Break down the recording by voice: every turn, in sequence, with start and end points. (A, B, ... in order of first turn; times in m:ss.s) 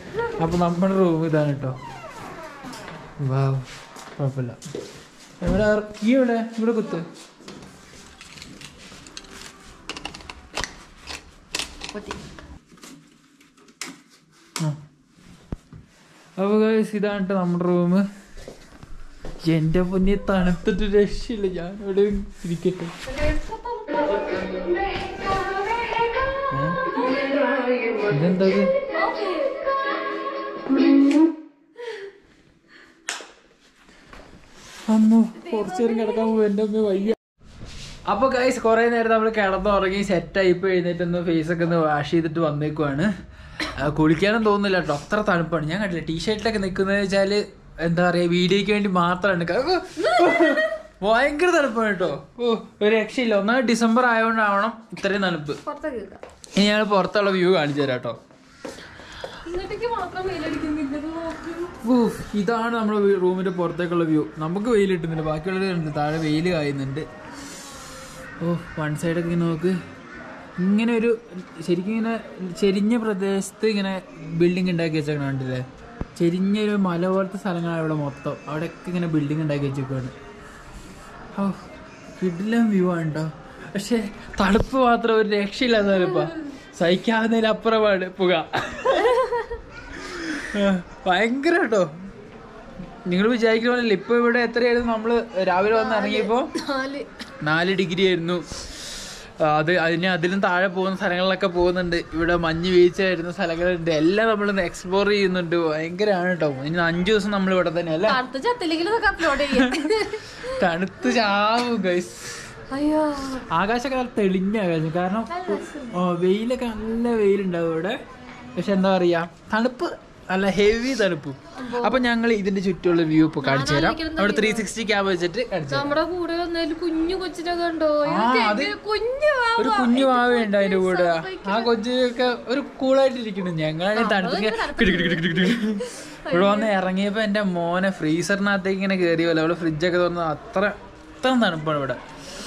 0:00.4-0:01.8 A
0:03.2-0:04.6 A
0:05.4-0:07.1 A
0:16.4-0:18.0 A
0:19.4-0:22.9 A
0:23.3-0:24.0 B
0:26.5-0:26.8 A
0:28.1-0:28.7 A
0:29.0-0:29.5 B
0:34.9-0:37.2 A
0:38.1-0:43.1 A
0:43.8-0:55.6 A
0:50.0-0:50.7 B
0:55.6-0:56.2 B
0:56.6-0:58.2 A
0:59.4-1:01.8 B
1:01.8-1:07.1 A
1:08.4-1:09.8 A
1:10.6-1:15.6 A
1:16.2-1:20.1 A
1:22.2-1:29.2 A
1:29.0-1:29.6 B
1:29.9-1:31.9 A
1:33.1-1:36.5 A
1:35.7-1:37.1 B
1:37.4-1:38.4 A
1:39.4-1:48.2 A
1:48.1-1:50.4 B
1:49.4-1:52.5 A
1:52.7-1:53.5 B
1:53.5-1:58.0 A
1:55.3-1:56.0 B
1:58.6-2:05.9 A
2:01.6-2:02.1 B
2:03.4-2:04.7 B
2:05.7-2:11.7 B
2:08.1-2:08.8 A
2:09.6-2:22.0 A
2:13.9-2:16.7 B